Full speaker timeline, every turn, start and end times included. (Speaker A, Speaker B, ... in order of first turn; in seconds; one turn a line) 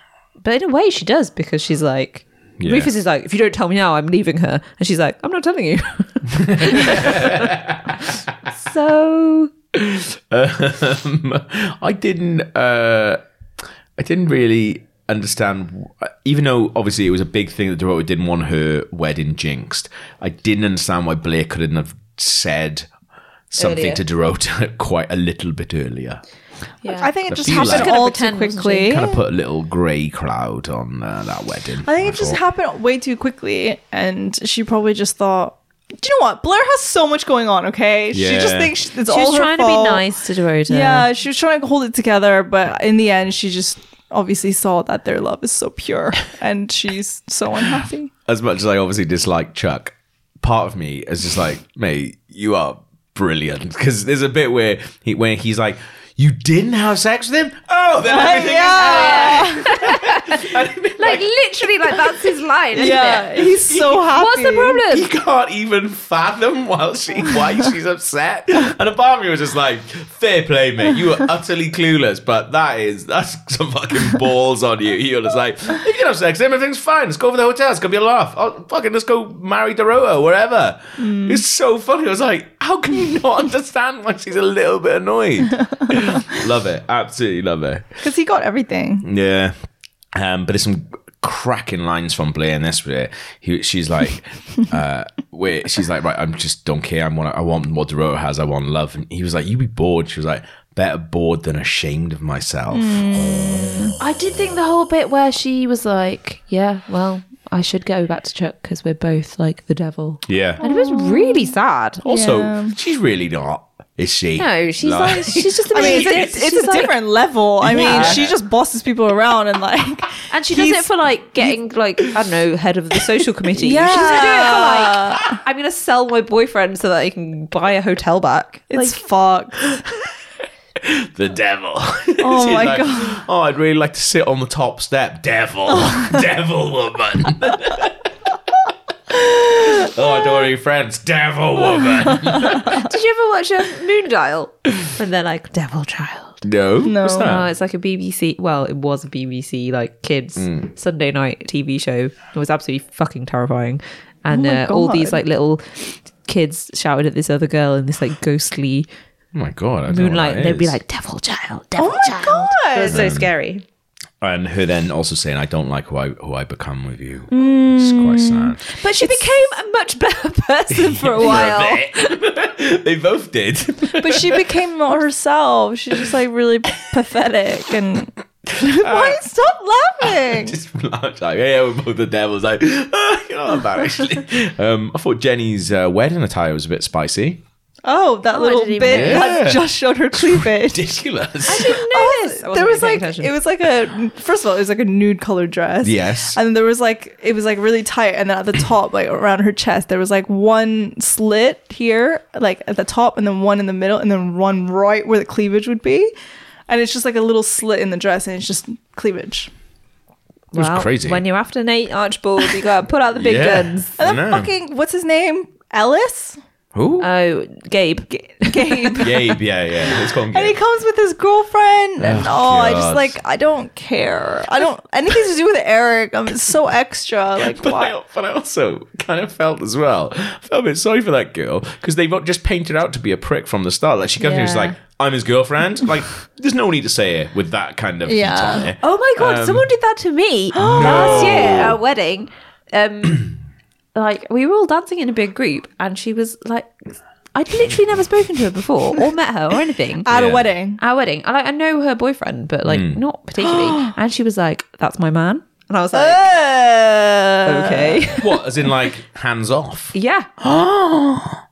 Speaker A: 0.4-9.5
Speaker B: 2.6-2.9
Speaker B: 6.3-7.8
Speaker B: 9.7-13.2
Speaker B: 14.0-22.9
Speaker B: 23.5-26.2
Speaker A: 23.6-24.0
Speaker A: 26.8-29.0
Speaker C: 26.9-29.2
Speaker B: 27.3-27.9
Speaker B: 28.9-32.4
Speaker C: 31.8-48.1
Speaker B: 38.1-38.7
Speaker A: 39.1-41.1
Speaker B: 48.2-61.3
Speaker C: 58.0-59.7
Speaker A: 58.7-63.5
Speaker C: 62.7-64.8
Speaker B: 62.8-64.0
Speaker A: 64.0-65.1
Speaker B: 64.9-87.9
Speaker C: 81.0-81.4
Speaker C: 88.0-89.0
Speaker B: 89.0-89.5
Speaker B: 90.1-104.0
Speaker C: 102.7-103.9
Speaker A: 104.0-112.0
Speaker B: 110.2-110.6
Speaker C: 110.6-111.5
Speaker B: 112.0-116.6
Speaker C: 112.0-112.8
Speaker A: 114.4-116.9
Speaker C: 115.7-121.5
Speaker B: 117.6-118.3
Speaker A: 117.7-118.2
Speaker A: 120.3-129.0
Speaker C: 123.5-125.4
Speaker C: 128.7-129.6
Speaker B: 130.8-138.1
Speaker C: 132.2-133.2
Speaker B: 139.5-142.8
Speaker A: 142.2-146.4
Speaker B: 146.4-147.5
Speaker C: 146.8-147.3
Speaker A: 147.1-158.9
Speaker B: 150.4-150.7
Speaker C: 154.3-155.2
Speaker B: 159.3-160.8
Speaker A: 159.9-163.6
Speaker C: 161.8-163.1
Speaker B: 162.9-163.3
Speaker B: 164.2-168.6
Speaker C: 167.3-169.2
Speaker A: 168.7-172.1
Speaker B: 170.7-174.4
Speaker C: 173.9-180.6
Speaker B: 178.5-179.2
Speaker B: 180.0-187.4
Speaker C: 187.8-190.9
Speaker A: 188.3-189.3
Speaker B: 188.8-191.8
Speaker A: 191.4-193.3
Speaker C: 191.6-206.1
Speaker B: 195.8-196.4
Speaker C: 206.7-209.5
Speaker A: 210.5-213.9
Speaker B: 210.5-211.2
Speaker B: 213.2-214.5
Speaker C: 214.0-216.4
Speaker B: 216.7-217.1
Speaker A: 217.0-219.2
Speaker C: 218.4-219.2
Speaker B: 219.0-220.6
Speaker C: 220.3-227.9
Speaker B: 222.0-223.2
Speaker B: 227.4-239.7
Speaker A: 234.2-234.7
Speaker C: 238.1-238.7
Speaker A: 238.8-243.3
Speaker C: 240.5-241.6
Speaker B: 240.6-241.8
Speaker A: 243.9-246.8
Speaker A: 247.3-250.1
Speaker C: 250.0-250.8
Speaker B: 250.1-250.5
Speaker A: 250.8-256.3
Speaker B: 252.7-253.0
Speaker C: 253.6-253.9
Speaker C: 255.9-258.1
Speaker A: 257.4-258.3
Speaker B: 258.2-261.4
Speaker A: 259.9-260.3